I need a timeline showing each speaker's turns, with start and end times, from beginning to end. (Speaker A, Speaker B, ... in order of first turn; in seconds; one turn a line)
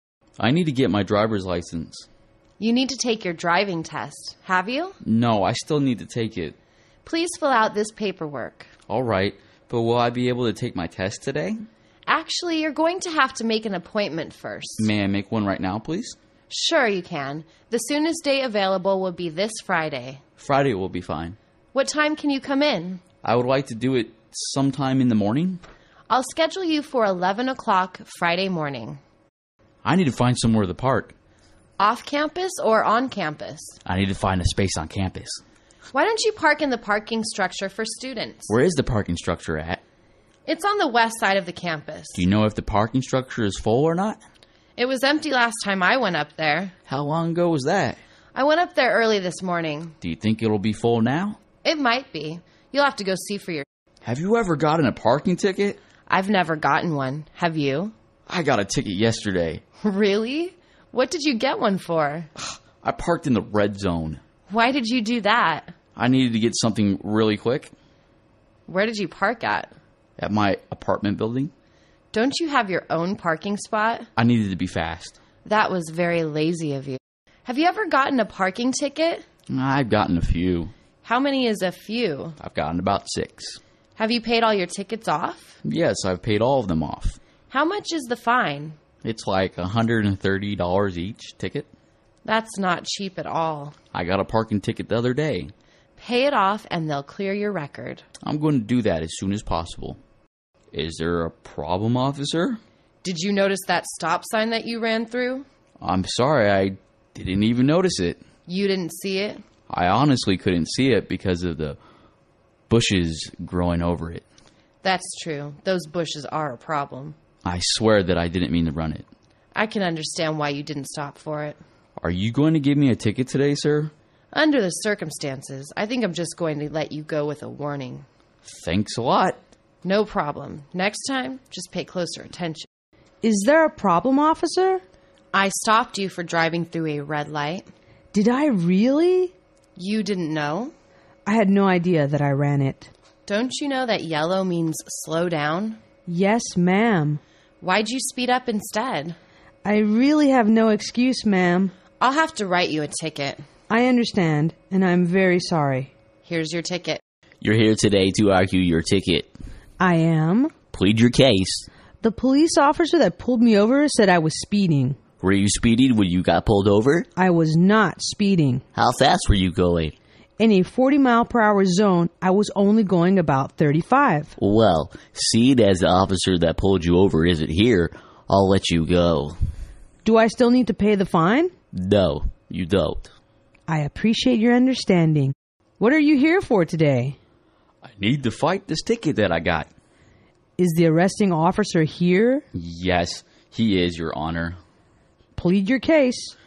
Speaker A: 0.4-2.1
Speaker B: 2.6-5.0
Speaker A: 5.0-6.6
Speaker B: 7.0-8.7
Speaker A: 8.9-11.7
Speaker B: 12.1-14.9
Speaker A: 14.8-16.2
Speaker B: 16.5-20.2
Speaker A: 20.4-21.4
Speaker B: 21.7-23.0
Speaker A: 23.2-25.6
Speaker B: 26.1-29.0
Speaker A: 29.8-31.1
Speaker B: 31.8-33.8
Speaker A: 33.9-35.4
Speaker B: 35.9-38.5
Speaker A: 38.5-39.8
Speaker B: 40.5-42.2
Speaker A: 42.1-44.2
Speaker B: 44.8-46.7
Speaker A: 46.9-48.0
Speaker B: 48.4-49.9
Speaker A: 50.0-51.4
Speaker B: 51.6-53.6
Speaker A: 54.0-55.8
Speaker B: 56.1-57.9
Speaker A: 58.3-59.6
Speaker B: 59.8-62.3
Speaker A: 62.8-64.2
Speaker B: 64.5-65.7
Speaker A: 66.0-67.7
Speaker B: 68.7-69.7
Speaker A: 70.2-71.5
Speaker B: 72.1-74.1
Speaker A: 74.2-75.2
Speaker B: 75.5-79.2
Speaker A: 79.5-80.7
Speaker B: 81.0-82.4
Speaker A: 82.4-83.6
Speaker B: 84.0-85.6
Speaker A: 85.6-87.2
Speaker B: 87.5-88.8
Speaker A: 89.0-91.7
Speaker B: 92.2-93.8
Speaker A: 93.9-95.5
Speaker B: 96.0-98.0
Speaker A: 98.2-100.0
Speaker A: 100.7-102.6
Speaker B: 103.0-105.5
Speaker A: 105.8-108.2
Speaker B: 108.5-109.4
Speaker A: 109.7-111.8
Speaker A: 112.7-114.2
Speaker B: 114.8-117.2
Speaker A: 117.5-119.1
Speaker B: 119.5-121.6
Speaker A: 122.0-123.9
Speaker B: 124.3-128.1
Speaker A: 128.4-129.4
Speaker B: 129.8-132.7
Speaker C: 133.2-134.8
Speaker B: 135.3-137.7
Speaker C: 138.1-139.3
Speaker B: 139.8-140.7
Speaker C: 141.3-142.9
Speaker B: 143.3-145.8
Speaker C: 146.1-147.2
Speaker B: 147.6-149.2
Speaker C: 149.7-151.7
Speaker B: 152.0-153.5
Speaker C: 153.7-155.9
Speaker B: 156.3-157.0
Speaker A: 157.4-159.3
Speaker C: 159.8-160.5
Speaker A: 160.7-161.7
Speaker C: 162.0-165.0
Speaker A: 165.2-167.1
Speaker C: 167.2-168.6
Speaker A: 168.8-169.9
Speaker C: 170.4-174.3
Speaker A: 174.4-179.4
Speaker C: 180.0-181.5
Speaker A: 181.7-183.1
Speaker C: 183.7-187.2
Speaker A: 187.8-189.7
Speaker C: 190.6-192.4
Speaker A: 192.5-194.6
Speaker C: 195.4-196.3